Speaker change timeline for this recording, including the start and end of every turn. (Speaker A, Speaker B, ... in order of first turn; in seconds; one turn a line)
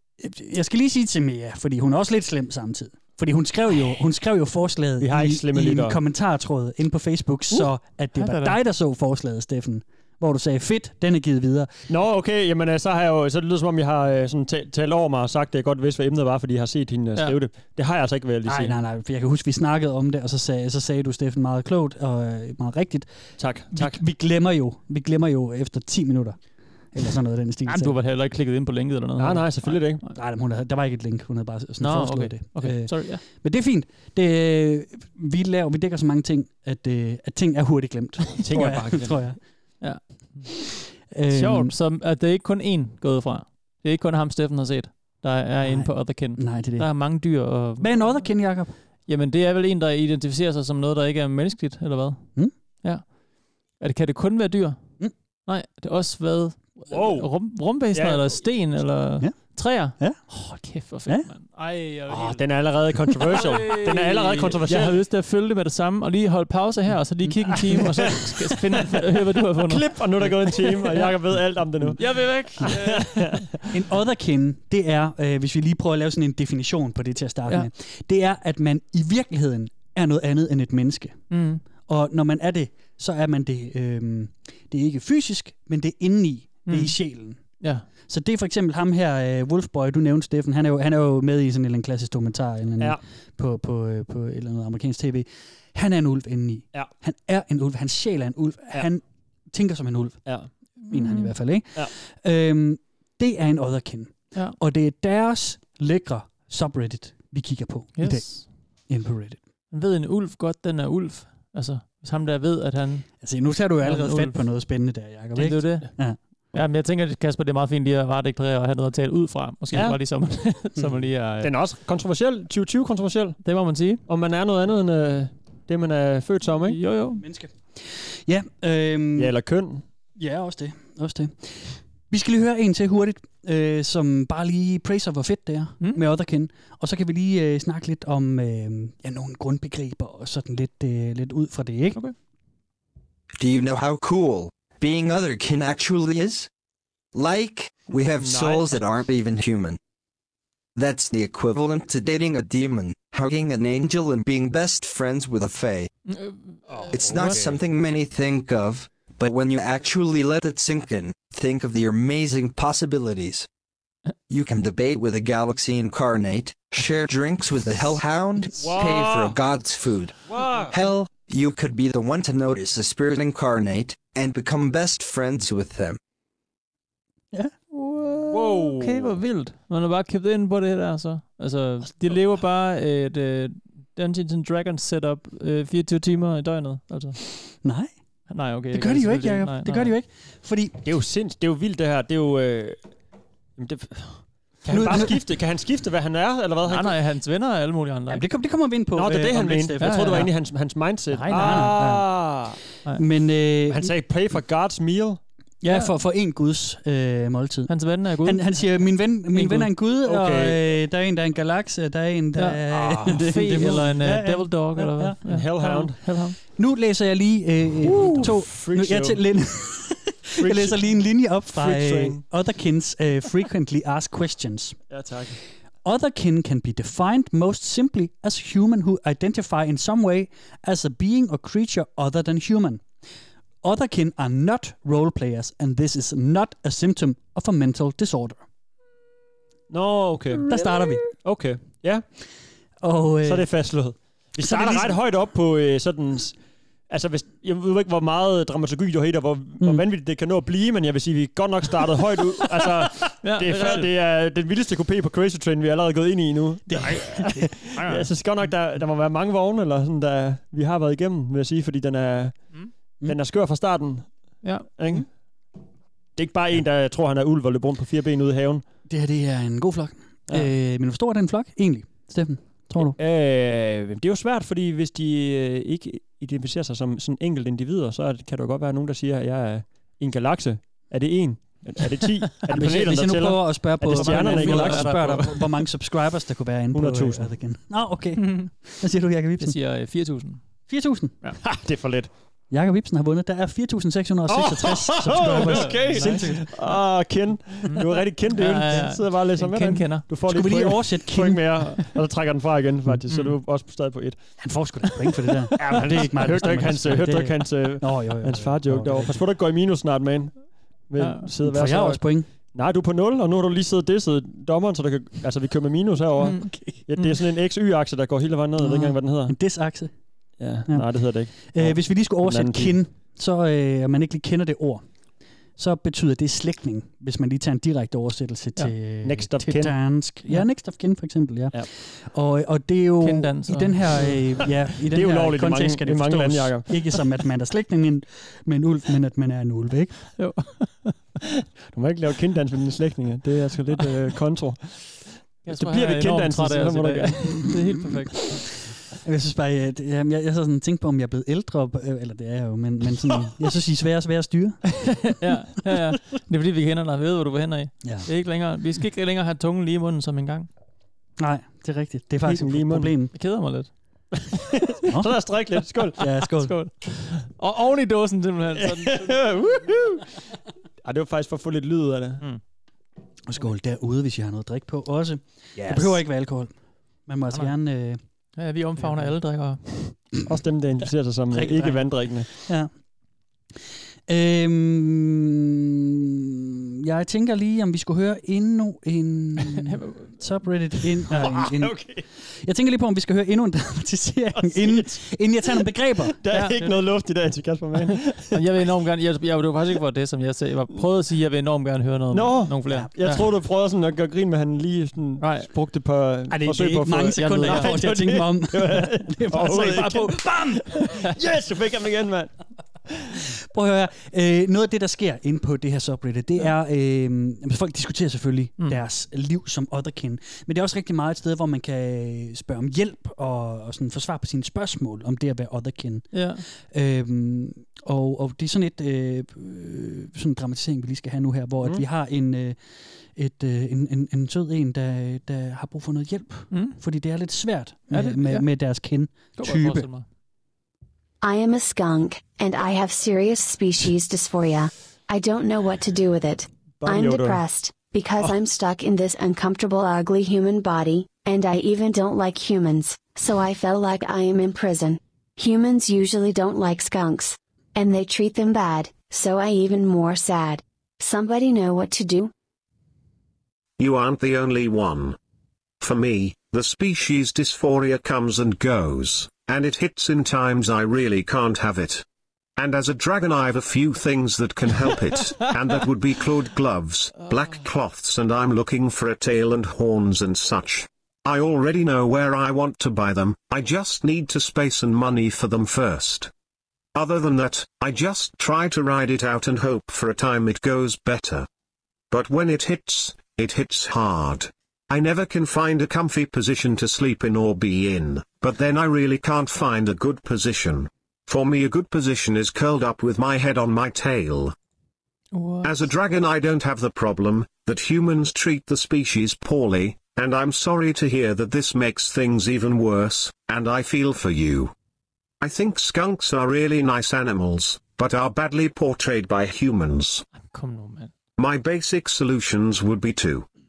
Speaker A: 0.2-11.7
Speaker B: 5.0-6.0
Speaker C: 8.2-8.6
Speaker B: 11.9-18.8
Speaker A: 18.4-27.9
Speaker B: 23.4-24.0
Speaker C: 27.6-30.1
Speaker B: 29.2-30.0
Speaker A: 30.1-39.4
Speaker C: 31.8-33.2
Speaker B: 38.4-39.3
Speaker C: 39.8-40.6
Speaker A: 41.1-41.7
Speaker C: 41.3-48.3
Speaker A: 45.6-46.9
Speaker A: 47.8-48.7
Speaker C: 49.0-53.1
Speaker C: 53.8-54.8
Speaker C: 55.5-62.4
Speaker B: 56.9-57.3
Speaker B: 57.9-58.4
Speaker B: 62.1-65.0
Speaker C: 63.3-71.1
Speaker B: 69.6-73.5
Speaker C: 72.0-73.4
Speaker A: 73.7-81.2
Speaker C: 81.3-81.6
Speaker A: 81.8-87.4
Speaker C: 86.7-87.0
Speaker C: 87.6-87.8
Speaker A: 88.0-109.4
Speaker C: 100.9-101.3
Speaker C: 108.0-108.5
Speaker C: 109.7-113.2
Speaker A: 113.2-116.2
Speaker C: 113.8-114.4
Speaker C: 115.3-116.0
Speaker C: 116.5-121.5
Speaker B: 119.7-120.0
Speaker B: 121.4-123.4
Speaker C: 123.4-124.0
Speaker B: 124.1-126.8
Speaker C: 126.7-127.2
Speaker A: 127.2-129.3
Speaker B: 129.2-129.8
Speaker A: 130.2-142.0
Speaker D: 143.4-146.5
Speaker D: 147.1-149.8
Speaker B: 148.2-148.8
Speaker D: 150.8-155.9
Speaker C: 156.1-157.3
Speaker B: 156.7-157.6
Speaker D: 156.9-163.5
Speaker D: 164.3-170.2
Speaker B: 168.6-169.4
Speaker B: 170.3-170.8
Speaker D: 170.7-176.0
Speaker C: 177.8-187.2
Speaker B: 178.2-179.1
Speaker A: 187.6-187.9
Speaker C: 188.3-189.9
Speaker A: 188.7-190.8
Speaker B: 190.8-192.8
Speaker B: 193.6-196.9
Speaker A: 194.7-195.2
Speaker C: 196.7-198.2
Speaker A: 198.1-200.3
Speaker B: 198.9-202.6
Speaker C: 199.8-200.3
Speaker C: 201.1-201.8
Speaker A: 201.3-202.3
Speaker A: 202.9-203.9
Speaker B: 203.7-205.2
Speaker A: 205.6-215.2
Speaker C: 207.7-208.8
Speaker C: 209.3-209.7
Speaker B: 210.0-210.6
Speaker C: 212.3-216.4
Speaker B: 212.7-213.1
Speaker B: 215.2-216.0
Speaker A: 216.4-224.8
Speaker B: 217.8-219.2
Speaker C: 218.0-218.2
Speaker B: 220.4-220.9
Speaker B: 221.5-222.2
Speaker B: 224.9-225.4
Speaker A: 225.8-232.8
Speaker A: 233.6-238.4
Speaker B: 239.7-240.5
Speaker A: 240.5-241.1
Speaker B: 241.1-242.0
Speaker A: 242.8-243.5
Speaker B: 243.2-246.4
Speaker A: 244.4-245.0
Speaker B: 246.9-265.1
Speaker C: 253.2-253.9
Speaker A: 256.7-257.5
Speaker C: 256.9-258.1
Speaker B: 266.1-268.6
Speaker A: 268.9-273.0
Speaker B: 272.9-285.3
Speaker A: 282.5-289.6
Speaker C: 283.9-285.5
Speaker B: 286.7-287.4
Speaker C: 288.2-288.5
Speaker C: 289.4-290.4
Speaker A: 290.7-291.2
Speaker B: 291.4-292.1
Speaker A: 292.5-296.5
Speaker B: 294.3-304.2
Speaker C: 295.4-296.7
Speaker C: 297.6-300.1
Speaker A: 300.3-301.7
Speaker C: 303.1-303.3
Speaker A: 304.4-309.1
Speaker B: 305.6-319.4
Speaker C: 311.0-311.3
Speaker A: 311.4-312.3
Speaker C: 316.2-317.1
Speaker A: 318.6-319.9
Speaker B: 320.4-322.8
Speaker A: 320.6-324.9
Speaker A: 325.6-340.1
Speaker B: 329.0-329.8
Speaker C: 333.0-334.1
Speaker B: 334.9-336.7
Speaker C: 340.2-341.0
Speaker B: 341.7-347.5
Speaker C: 345.4-348.4
Speaker A: 349.0-355.1
Speaker C: 355.0-360.5
Speaker A: 357.8-358.1
Speaker A: 361.2-363.1
Speaker B: 362.2-362.9
Speaker C: 363.1-363.7
Speaker B: 364.3-366.0
Speaker A: 364.9-365.2
Speaker A: 365.9-366.5
Speaker C: 366.2-369.2
Speaker B: 368.6-370.1
Speaker B: 370.8-372.2
Speaker A: 373.3-376.5
Speaker A: 377.0-378.0
Speaker C: 378.4-379.8
Speaker B: 380.2-382.3
Speaker A: 381.3-382.7
Speaker A: 384.1-396.2
Speaker C: 389.7-390.1
Speaker B: 391.1-392.0
Speaker B: 394.4-395.0
Speaker B: 396.2-398.4
Speaker C: 396.3-396.8
Speaker C: 398.3-403.2
Speaker B: 402.1-412.3
Speaker A: 402.6-402.9
Speaker C: 405.2-405.5
Speaker A: 406.3-410.9
Speaker C: 407.1-407.9
Speaker B: 412.9-413.2
Speaker A: 413.3-432.6
Speaker C: 426.1-426.4
Speaker A: 433.1-439.9
Speaker C: 436.5-436.8
Speaker C: 437.9-438.5
Speaker C: 439.4-440.0
Speaker E: 441.2-462.3
Speaker B: 446.8-447.4
Speaker F: 463.8-465.2
Speaker F: 465.8-472.0
Speaker F: 472.6-486.3
Speaker F: 486.9-491.5
Speaker F: 492.1-504.5
Speaker C: 505.3-505.7
Speaker F: 505.6-514.7
Speaker F: 515.4-520.2
Speaker C: 520.3-521.1
Speaker F: 521.4-523.5